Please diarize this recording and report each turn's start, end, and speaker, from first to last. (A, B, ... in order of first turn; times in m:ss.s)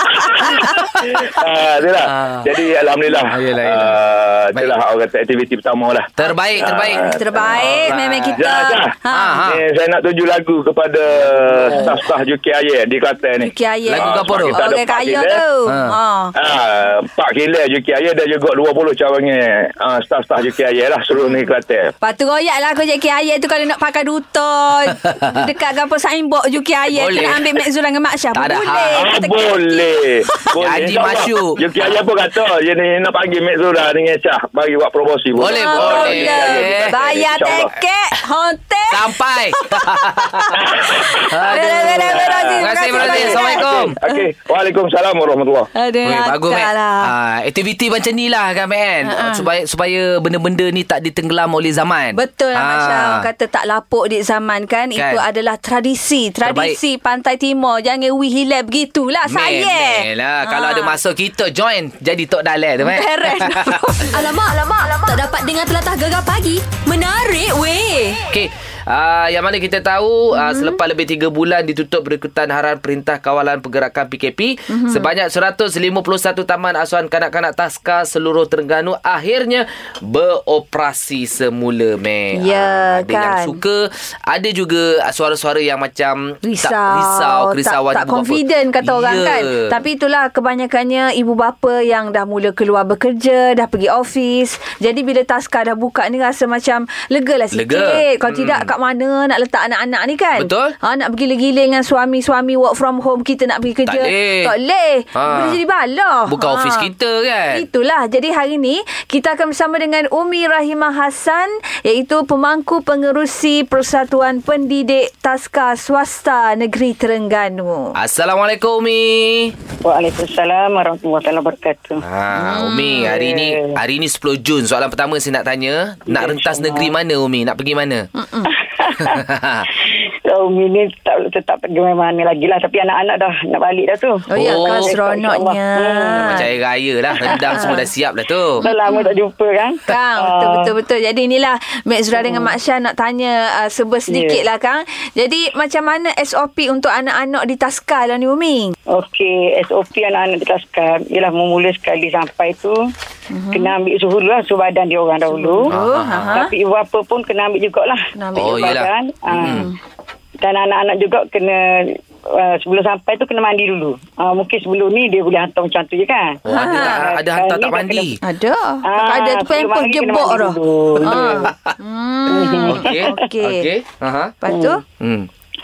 0:00.2-0:01.3 A
0:00.3-0:00.9 B
0:01.0-0:08.9 C
0:02.1-0:02.4 A
0:03.3-0:04.0 A
0:06.2-0:08.4 A
0:06.5-0:09.4 B
0:09.1-0:09.6 A
0:09.4-0:15.4 C
0:11.1-0:12.0 A
0:13.4-0:16.3 B
0:13.9-0:14.6 A
0:15.7-0:16.0 A
0:16.4-0:21.9 C
0:22.0-0:29.8 B
0:24.9-0:25.4 A
0:26.9-0:27.4 A
0:28.4-0:29.0 A
0:29.0-0:37.7 C
0:30.4-0:32.0 A
0:35.4-0:36.9 A
0:35.5-0:44.3 B
0:38.9-0:44.0 A
0:40.6-0:41.2 C
0:42.1-0:45.7 C
0:45.8-0:47.1 B
0:46.0-0:53.3 A
0:49.0-0:49.4 B
0:52.2-1:01.0 B
0:55.0-0:55.2 A
0:56.4-0:56.8 A
0:59.3-1:04.1 A
1:02.8-1:04.2 B
1:04.1-1:08.3 D
1:08.3-1:29.8 A
1:10.3-1:10.8 B
1:14.7-1:15.1 B
1:22.4-1:23.6 B
1:26.4-1:46.9 B
1:37.5-1:38.7 A
1:40.4-1:40.7 A
1:43.9-1:44.5 A
1:45.2-1:45.6 A
1:46.3-1:47.6 A
1:47.5-1:57.9 B
1:58.0-1:59.6 A
1:59.8-2:02.0 E
2:02.0-2:08.1 A
2:02.3-2:03.1 B
2:03.0-2:03.8 E
2:06.1-2:06.9 E
2:08.2-2:08.5 B
2:08.5-2:09.2 E
2:09.0-2:09.7 A
2:09.9-2:16.4 E
2:14.3-2:16.5 B
2:14.3-2:14.9 A
2:16.2-2:18.6 A
2:17.2-2:17.8 B
2:17.3-2:17.6 E
2:18.6-2:20.7 E
2:18.6-2:19.2 B
2:19.9-2:28.7 B
2:22.2-2:22.5 E
2:24.1-2:24.4 E
2:28.9-2:32.8 E
2:33.3-2:33.7 B
2:33.5-2:35.8 E
2:35.3-2:36.5 B
2:35.7-2:36.5 A
2:36.3-2:39.7 E
2:38.2-2:38.8 B
2:38.4-2:39.7 A
2:39.4-2:39.7 B
2:40.4-2:48.2 E
2:46.5-2:48.2 A
2:46.5-2:47.0 B
2:48.2-2:53.7 B
2:48.8-2:51.5 E
2:51.0-2:51.8 A
2:52.3-2:53.3 E
2:52.3-2:54.4 A
2:54.4-2:54.8 B
2:54.5-2:54.8 E
2:55.0-2:55.3 A